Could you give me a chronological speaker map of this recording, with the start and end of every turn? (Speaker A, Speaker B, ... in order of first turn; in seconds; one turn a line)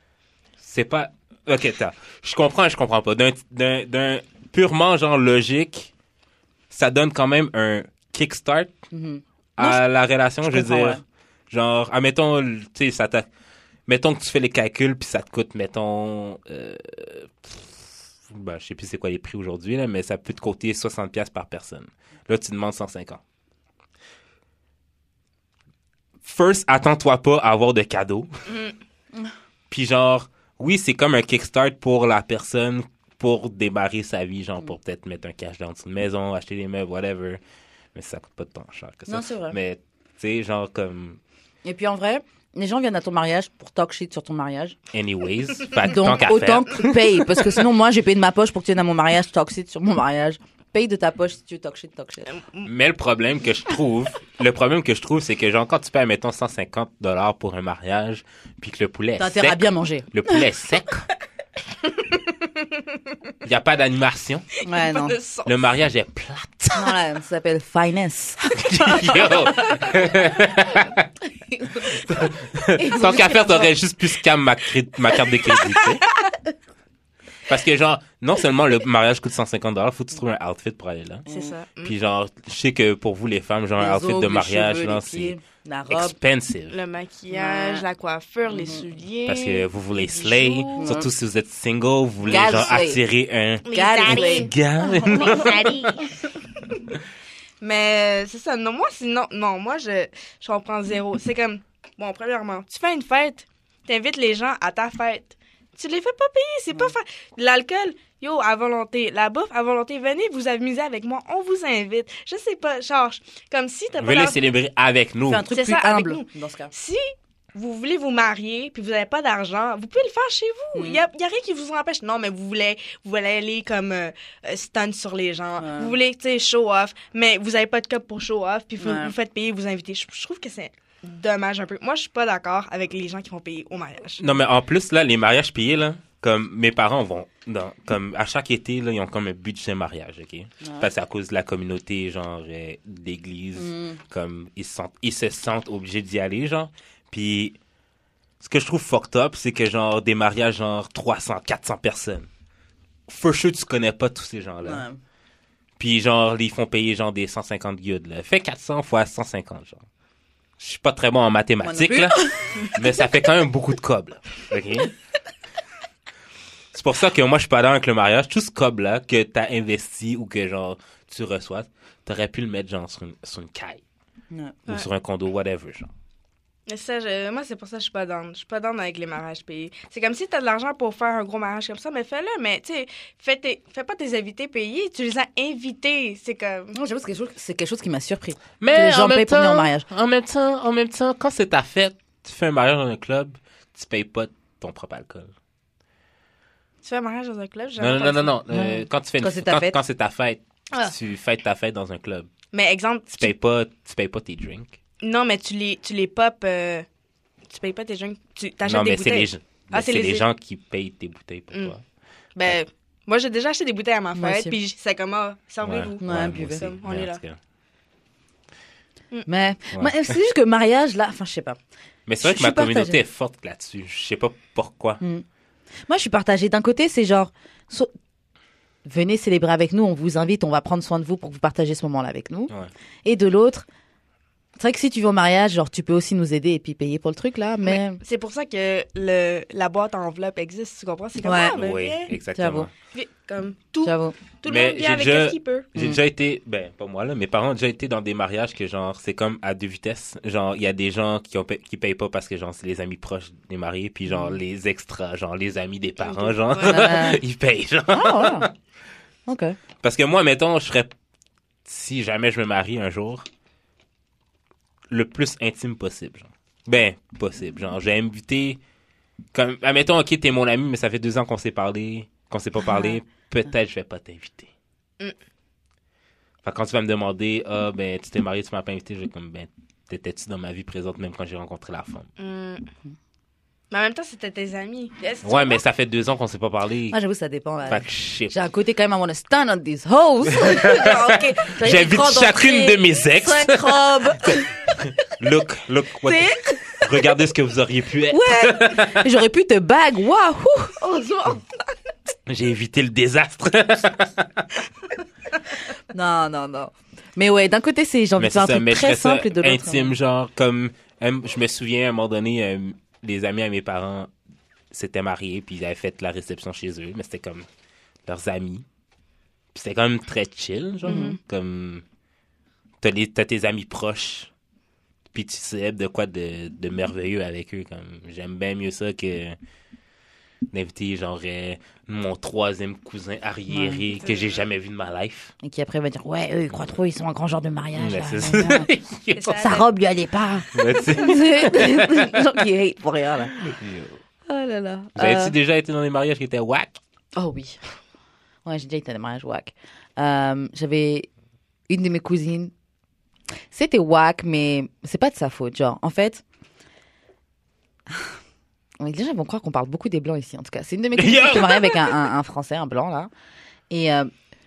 Speaker A: 0.6-5.9
Speaker A: 6.7-8.7
Speaker B: 8.9-9.8
Speaker A: 9.6-13.3
Speaker B: 10.4-11.0
Speaker A: 13.9-23.2
Speaker A: 26.2-28.5
Speaker A: 29.7-37.4
Speaker A: 37.9-41.2
Speaker B: 39.1-39.6
Speaker B: 41.6-44.8
Speaker A: 44.9-47.5
Speaker B: 45.8-52.4
Speaker A: 52.6-61.1
Speaker B: 59.2-60.5
Speaker C: 62.1-62.8
Speaker A: 63.4-64.5
Speaker B: 64.6-65.2
Speaker C: 64.7-65.6
Speaker A: 65.5-67.0
Speaker B: 66.7-69.9
Speaker A: 68.5-71.1
Speaker B: 71.3-73.7
Speaker A: 71.8-76.0
Speaker B: 75.3-75.6
Speaker A: 77.5-81.2
Speaker B: 81.2-81.5
Speaker C: 81.3-81.9
Speaker A: 81.8-85.3
Speaker B: 83.8-86.2
Speaker A: 85.9-86.8
Speaker C: 86.7-91.0
Speaker B: 87.3-87.8
Speaker B: 88.5-88.8
Speaker A: 89.2-95.9
Speaker B: 90.8-91.1
Speaker B: 92.2-93.0
Speaker C: 93.6-96.1
Speaker B: 93.7-95.9
Speaker C: 97.6-114.4
Speaker A: 114.0-115.5
Speaker B: 115.3-116.7
Speaker C: 115.5-134.2
Speaker B: 120.7-121.0
Speaker B: 125.6-125.9
Speaker B: 128.8-129.1
Speaker A: 134.2-147.6
Speaker B: 140.6-140.9
Speaker B: 143.5-144.0
Speaker A: 148.4-152.3
Speaker A: 153.1-154.8
Speaker B: 154.6-155.0
Speaker A: 155.8-159.8
Speaker A: 160.6-164.9
Speaker B: 161.6-163.0
Speaker A: 166.7-173.8
Speaker B: 174.3-174.6
Speaker A: 174.7-175.9
Speaker C: 176.7-186.8
Speaker B: 186.7-189.8
Speaker A: 188.6-195.3
Speaker C: 196.8-198.4
Speaker A: 197.8-202.3
Speaker B: 198.5-199.8
Speaker C: 202.5-203.3
Speaker A: 203.2-204.8
Speaker C: 205.0-206.8
Speaker C: 207.5-210.3
Speaker A: 208.6-211.8
Speaker C: 212.3-217.2
Speaker B: 214.1-214.6
Speaker A: 215.6-217.4
Speaker B: 216.0-216.7
Speaker B: 219.2-221.6
Speaker A: 219.7-220.0
Speaker A: 222.1-225.0
Speaker B: 222.2-223.0
Speaker B: 225.9-227.9
Speaker B: 228.8-232.5
Speaker B: 233.0-233.7
Speaker B: 234.6-238.0
Speaker C: 237.6-242.1
Speaker B: 241.2-241.6
Speaker A: 241.5-242.7
Speaker B: 242.3-242.7
Speaker C: 242.9-245.7
Speaker B: 243.8-244.2
Speaker A: 244.4-258.5
Speaker B: 254.1-254.4
Speaker C: 256.0-257.0
Speaker B: 256.6-257.2
Speaker B: 257.9-258.5
Speaker B: 259.3-259.6
Speaker A: 259.8-260.9
Speaker A: 261.6-263.3
Speaker A: 264.9-268.6
Speaker A: 269.3-274.5
Speaker B: 272.7-272.9
Speaker A: 276.4-282.1
Speaker C: 282.2-282.7
Speaker C: 283.7-285.6
Speaker A: 285.2-287.0
Speaker B: 286.9-294.9
Speaker A: 287.7-288.3
Speaker A: 290.2-299.1
Speaker B: 296.0-296.9
Speaker B: 298.1-301.4
Speaker A: 302.2-304.6
Speaker B: 305.9-309.9
Speaker A: 308.2-314.1
Speaker A: 314.7-317.5
Speaker A: 318.1-318.6
Speaker A: 319.5-321.8
Speaker C: 320.8-321.2
Speaker B: 320.9-321.1
Speaker A: 322.8-324.3
Speaker A: 325.1-329.4
Speaker A: 330.5-335.3
Speaker B: 333.5-333.8
Speaker C: 333.9-334.4
Speaker B: 335.4-338.7
Speaker A: 337.8-339.5
Speaker C: 339.1-339.6
Speaker B: 339.4-343.4
Speaker A: 340.5-342.4
Speaker A: 343.3-344.0
Speaker B: 344.3-345.3
Speaker A: 344.9-346.8
Speaker B: 347.1-347.6
Speaker B: 348.4-351.1
Speaker B: 351.7-352.5
Speaker B: 353.5-356.2
Speaker B: 358.8-363.1
Speaker A: 360.9-361.9
Speaker B: 363.7-364.1